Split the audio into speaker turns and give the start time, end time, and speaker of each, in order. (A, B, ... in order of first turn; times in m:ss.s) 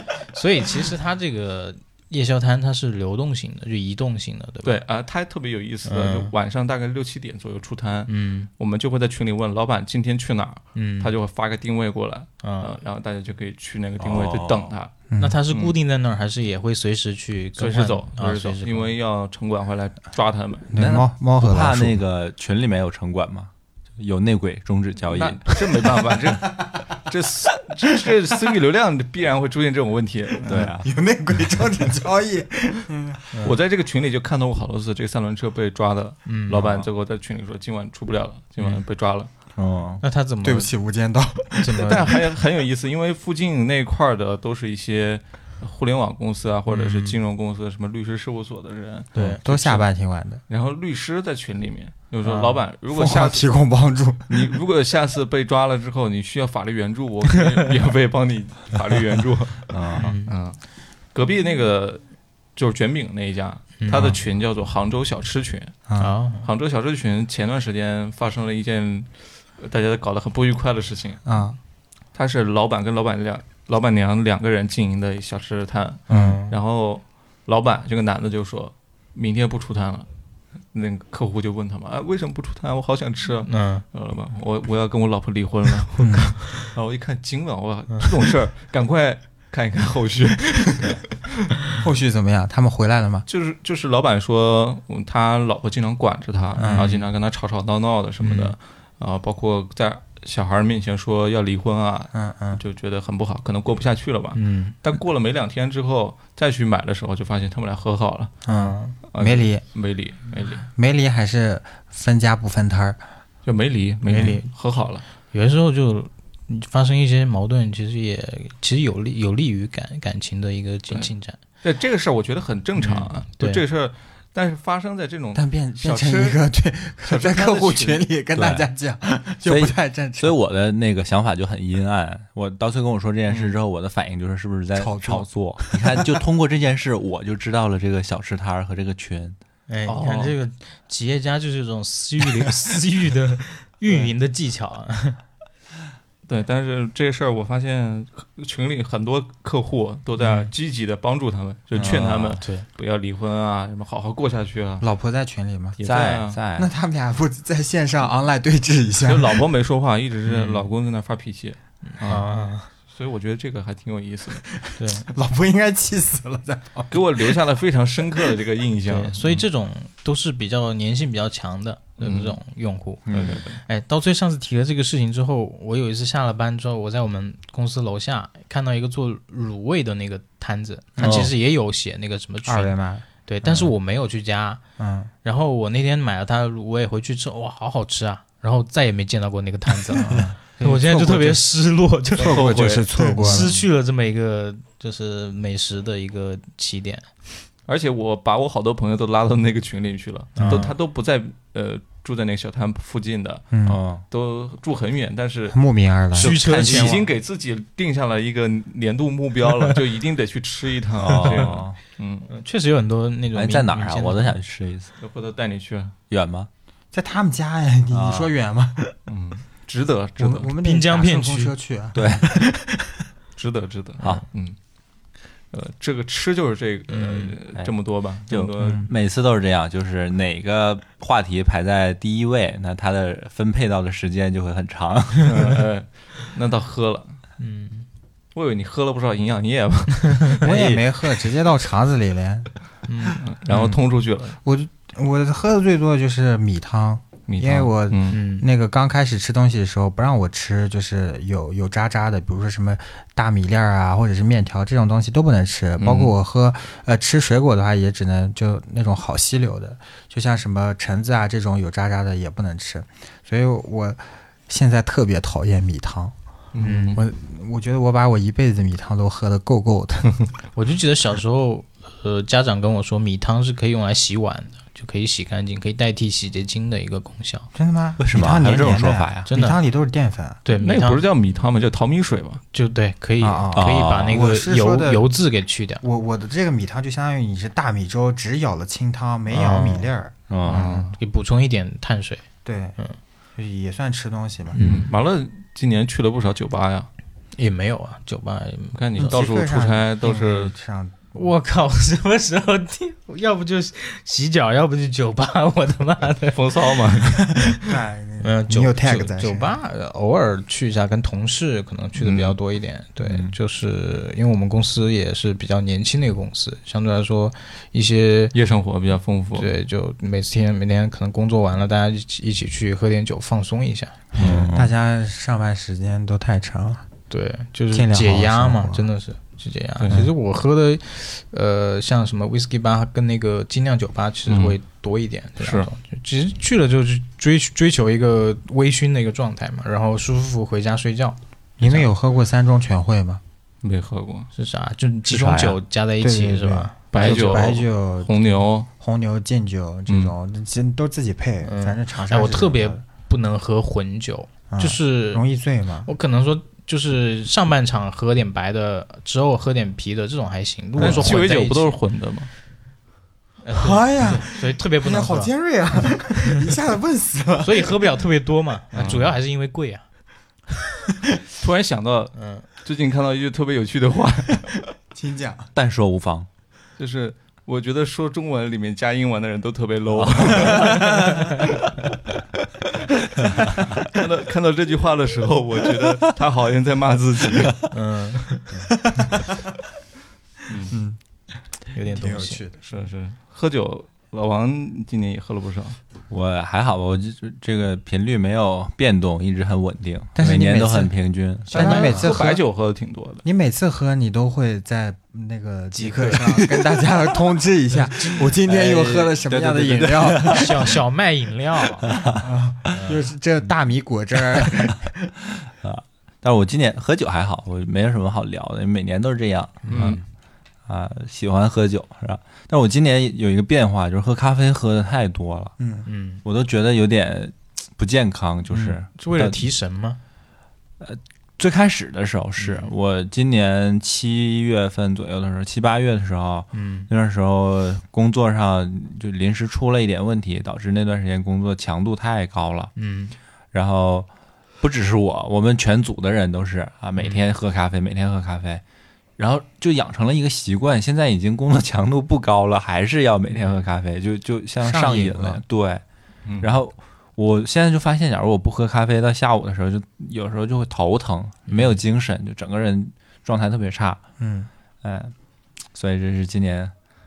0:00.3-0:04.8 A
0:04.6-0:14.9 B
0:05.8-0:06.3 A
0:08.1-0:08.5 A
0:10.7-0:11.1 A
0:12.4-0:12.8 A
0:14.0-0:14.7 C
0:15.1-0:15.4 D
0:15.2-0:18.9 A
0:17.6-0:20.7 B
0:20.7-0:22.0 D
0:20.7-0:25.6 C
0:25.0-0:30.7 B
0:30.4-0:30.9 C
0:30.6-0:33.2 D
0:33.4-0:39.3 B
0:36.2-0:36.6 A
0:36.6-0:36.9 C
0:39.6-0:40.0 C
0:40.0-0:40.7 A
0:40.4-0:42.1 D
0:41.6-0:42.1 A
0:41.8-0:49.8 B
0:46.7-0:47.2 A
0:49.1-0:49.4 A
0:49.1-0:50.4 D
0:50.5-0:53.5 B
0:52.2-0:52.6 A
0:52.9-0:54.4 D
0:54.3-1:11.4 B
0:59.7-1:00.1 C
1:00.0-1:00.3 A
1:03.8-1:04.1 A
1:05.9-1:06.1 D
1:06.0-1:06.4 A
1:11.2-1:11.6 D
1:12.1-1:20.1 B
1:16.1-1:16.6 A
1:16.1-1:16.4 D
1:20.7-1:31.1 B
1:23.4-1:23.8 A
1:26.0-1:26.4 D
1:31.8-1:33.2 D
1:33.3-1:48.3 B
1:36.6-1:36.9 D
1:36.6-1:37.0 A
1:38.2-1:38.5 A
1:42.1-1:42.6 D
1:44.3-1:44.7 A
1:48.4-1:49.6 D
1:48.5-1:48.9 A
1:49.1-1:50.6 B
1:50.6-1:53.0 D
1:53.4-1:55.0 B
1:54.1-1:54.4 D
1:54.1-1:54.4 A
1:55.3-2:01.4 A
2:01.6-2:06.4 B
2:02.8-2:03.6 A
2:05.3-2:10.3 D
2:07.0-2:08.1 B
2:08.3-2:08.7 C
2:09.4-2:19.4 C
2:13.3-2:13.5 B
2:14.7-2:16.2 D
2:19.7-2:25.2 A
2:19.8-2:20.4 B
2:26.2-2:34.9 B
2:30.2-2:30.4 A
2:31.8-2:32.4 C
2:32.4-2:32.6 A
2:34.8-2:35.8 D
2:35.8-2:36.4 B
2:35.8-2:36.7 C
2:36.5-2:39.4 D
2:39.0-2:42.2 B
2:40.3-2:40.6 A
2:41.8-2:42.7 A
2:42.9-2:44.4 B
2:44.6-2:47.4 D
2:44.8-2:45.1 A
2:46.9-2:49.2 B
2:48.9-2:53.0 A
2:52.0-2:52.4 B
2:53.1-2:53.4 C
2:53.1-2:53.6 B
2:53.6-3:04.6 A
3:01.0-3:01.3 D
3:01.0-3:01.3 C
3:02.4-3:03.7 D
3:04.8-3:05.1 D
3:05.2-3:17.3 A
3:10.0-3:11.4 D
3:12.2-3:13.6 D
3:12.2-3:13.5 B
3:17.7-3:23.5 B
3:20.4-3:20.7 A
3:20.4-3:20.7 D
3:23.5-3:23.8 D
3:23.6-3:24.0 C
3:24.1-3:25.6 B
3:25.5-3:26.4 D
3:26.1-3:32.3 B
3:26.2-3:27.0 A
3:26.4-3:27.0 C
3:31.0-3:31.8 C
3:32.3-3:34.4 A
3:33.3-3:34.9 C
3:35.0-3:35.9 B
3:36.1-3:36.5 C
3:36.9-3:39.0 D
3:37.9-3:38.3 C
3:39.1-3:40.5 B
3:40.2-3:42.8 D
3:40.6-3:41.5 A
3:41.9-3:42.3 C
3:43.4-3:44.6 B
3:44.0-3:44.2 C
3:45.5-3:48.9 B
3:46.9-3:47.4 A
3:48.3-3:55.5 C
3:55.2-3:57.2 B
3:57.4-3:57.9 A
3:58.3-4:00.8 B
4:00.4-4:02.5 D
4:02.9-4:03.2 A
4:03.1-4:04.4 B
4:03.5-4:03.8 D
4:04.4-4:26.1 D
4:07.3-4:08.2 B
4:08.1-4:08.4 A
4:15.8-4:16.1 B
4:26.5-4:27.0 B
4:26.6-4:27.0 A
4:27.0-4:30.3 D
4:30.5-4:37.5 A
4:37.5-4:40.4 D
4:38.0-4:39.3 C
4:39.3-4:39.6 A
4:40.4-4:41.0 A
4:40.6-4:42.4 B
4:42.5-4:45.8 A
4:43.2-4:45.0 D
4:43.5-4:44.2 C
4:45.8-4:50.9 D
4:49.3-4:49.9 A
4:50.3-4:50.7 C
4:50.4-4:50.9 B
4:50.5-4:52.2 A
4:52.4-4:52.8 D
4:53.4-4:54.6 D
4:54.5-4:54.9 A
4:54.6-4:56.9 B
4:57.3-4:59.1 A
4:58.7-5:00.5 B
4:59.0-5:01.3 D
5:01.1-5:06.5 A
5:06.3-5:07.2 B
5:07.1-5:07.5 A
5:07.5-5:09.6 D
5:08.2-5:18.3 A
5:12.0-5:12.4 B
5:13.0-5:13.3 C
5:18.3-5:19.5 B
5:19.3-5:24.0 A
5:24.1-5:24.7 C
5:24.1-5:26.8 D
5:27.1-5:41.9 A
5:27.7-5:28.9 D
5:34.3-5:34.6 B
5:35.4-5:35.7 B
5:41.6-5:43.2 D
5:43.6-5:44.3 B
5:44.3-5:47.5 A
5:45.1-5:45.6 C
5:46.0-5:52.8 D
5:46.9-5:48.7 B
5:49.9-5:50.1 B
5:51.4-5:55.2 A
5:54.5-5:55.9 D
5:55.8-6:01.8 A
6:00.8-6:01.2 D
6:00.8-6:02.3 B
6:03.4-6:05.3 A
6:03.5-6:07.7 D
6:07.4-6:09.8 A
6:08.7-6:09.1 B
6:11.4-6:14.6 B
6:12.1-6:12.5 A
6:14.9-6:15.5 D
6:15.5-6:16.3 C
6:16.8-6:21.0 B
6:20.0-6:20.9 C
6:20.5-6:20.8 A
6:20.5-6:20.8 D
6:23.7-6:27.6 B
6:27.7-6:28.5 A
6:30.5-6:30.7 B
6:30.7-6:31.0 D
6:31.7-6:32.4 A
6:31.8-6:32.6 D
6:32.6-6:35.8 B
6:36.1-6:41.6 C
6:40.2-6:40.9 D
6:41.5-6:42.1 A
6:41.5-6:42.4 D
6:41.5-6:43.2 B
6:43.2-6:50.6 D
6:45.7-6:46.4 A
6:47.7-6:48.2 A
6:48.3-6:50.7 C
6:50.2-6:51.9 A
6:51.8-6:52.3 C
6:52.2-6:55.1 D
6:52.7-6:53.1 A
6:55.6-7:00.0 C
6:59.6-7:00.0 A
6:59.7-7:00.0 B
7:00.7-7:05.5 C
7:05.6-7:05.8 D
7:05.8-7:06.2 A
7:06.2-7:09.4 C
7:08.9-7:10.0 A
7:10.8-7:22.7 C
7:12.4-7:12.7 A
7:16.5-7:16.9 A
7:22.8-7:23.1 A
7:23.5-7:24.1 C
7:24.6-7:28.6 C
7:27.0-7:27.2 A
7:29.2-7:35.8 C
7:34.6-7:35.4 D
7:36.2-7:36.5 B
7:36.4-7:44.0 C
7:44.2-7:44.5 D
7:44.8-7:45.1 C
7:45.7-7:46.7 C